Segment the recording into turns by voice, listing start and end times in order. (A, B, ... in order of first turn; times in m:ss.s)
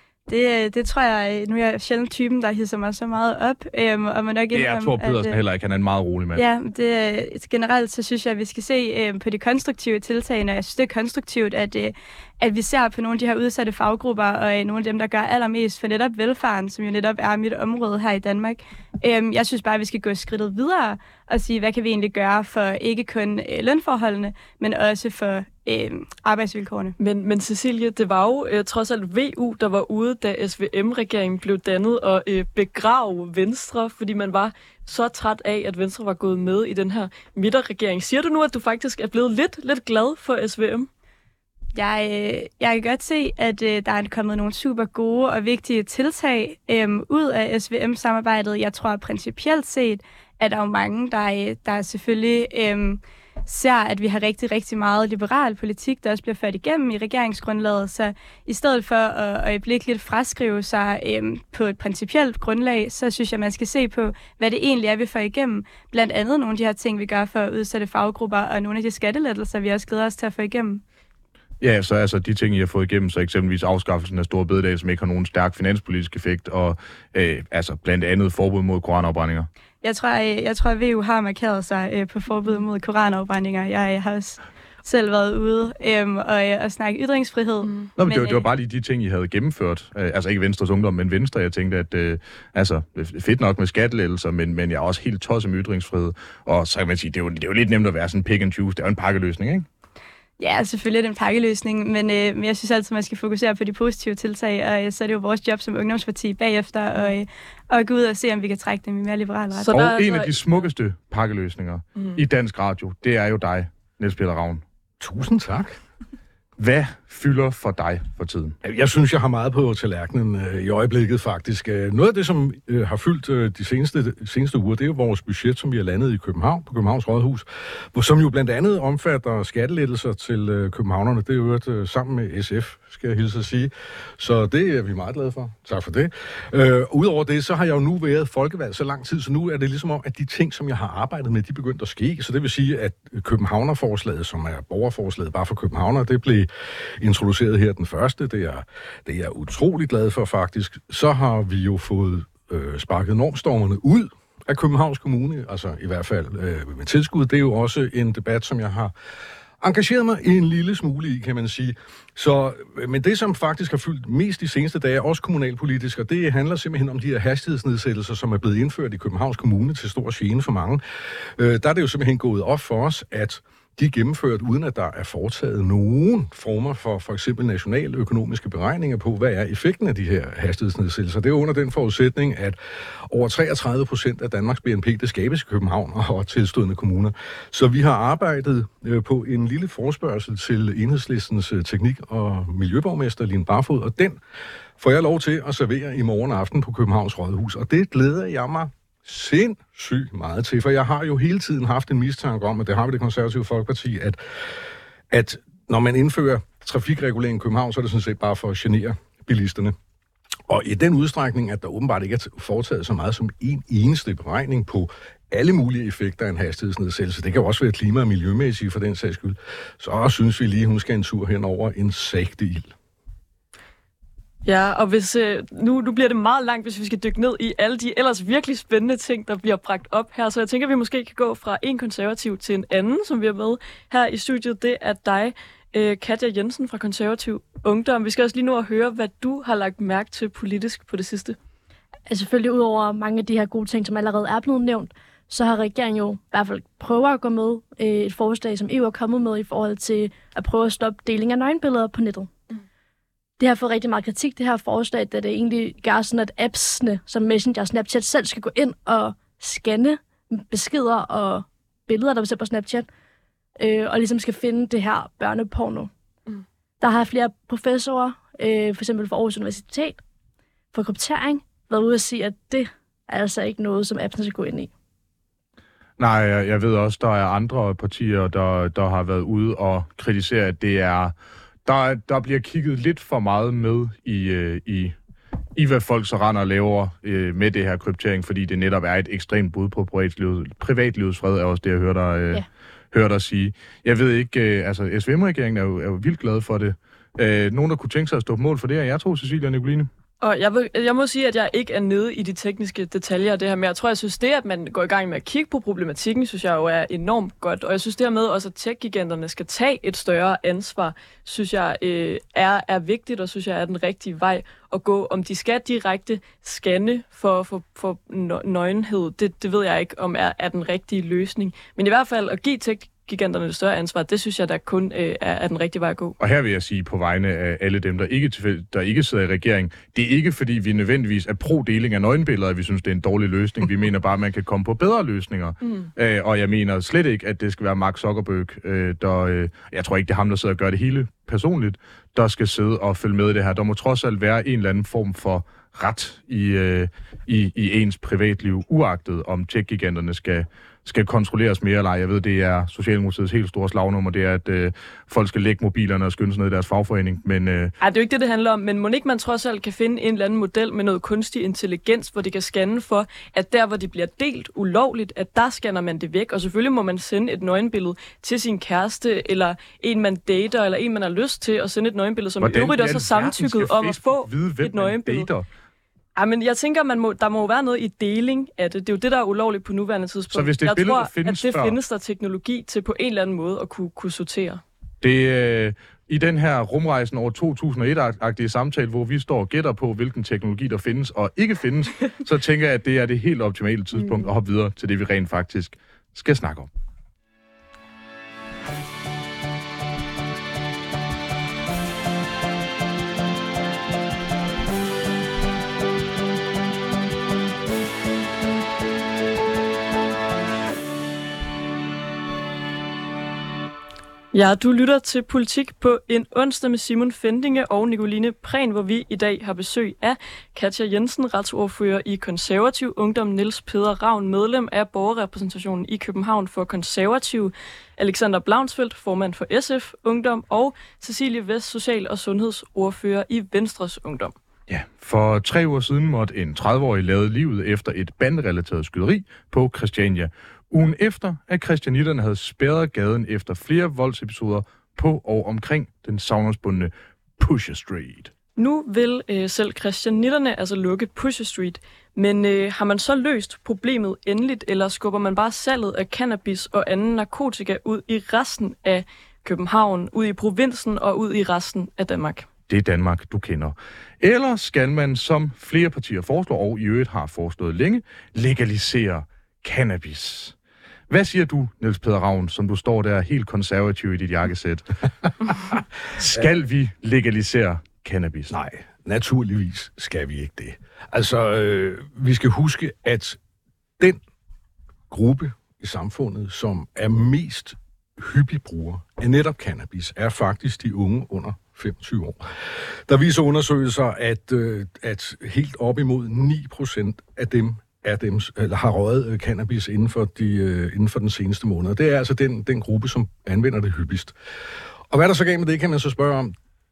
0:00.3-0:05.4 A
0:04.5-0:06.4 B
0:06.3-0:27.0 A
0:27.0-0:40.9 C
0:41.7-1:10.8 A
1:11.6-1:19.5 B
1:19.8-1:28.4 A
1:28.0-1:39.7 B
1:40.4-1:49.7 A
1:49.6-1:50.6 C
1:49.7-1:54.6 B
1:52.0-1:52.2 C
1:55.0-1:55.8 D
1:56.6-1:58.6 B
1:58.6-2:38.9 D
2:39.6-3:02.6 D
3:03.1-3:14.2 D
3:14.8-3:24.2 D
3:25.1-3:29.8 D
3:30.5-3:42.7 D
3:44.4-4:01.4 C
4:02.1-4:12.3 E
4:13.4-4:22.9 E
4:23.6-4:25.9 E
4:26.8-4:30.0 E
4:30.7-4:34.7 E
4:36.0-4:44.9 B
4:45.6-4:59.9 B
5:00.2-5:26.2 C
5:26.2-5:57.7 B
5:57.8-6:15.3 C
6:12.4-6:15.5 B
6:16.1-6:24.6 C
6:20.3-6:21.8 B
6:25.0-6:36.7 B
6:54.3-7:14.3 C
7:14.7-7:28.3 B
7:28.6-7:42.5 C
7:42.7-7:50.5 B
7:51.1-7:58.5 B
7:58.5-8:03.4 D
8:05.1-8:12.4 D
8:13.1-8:24.3 D
8:25.1-8:26.5 D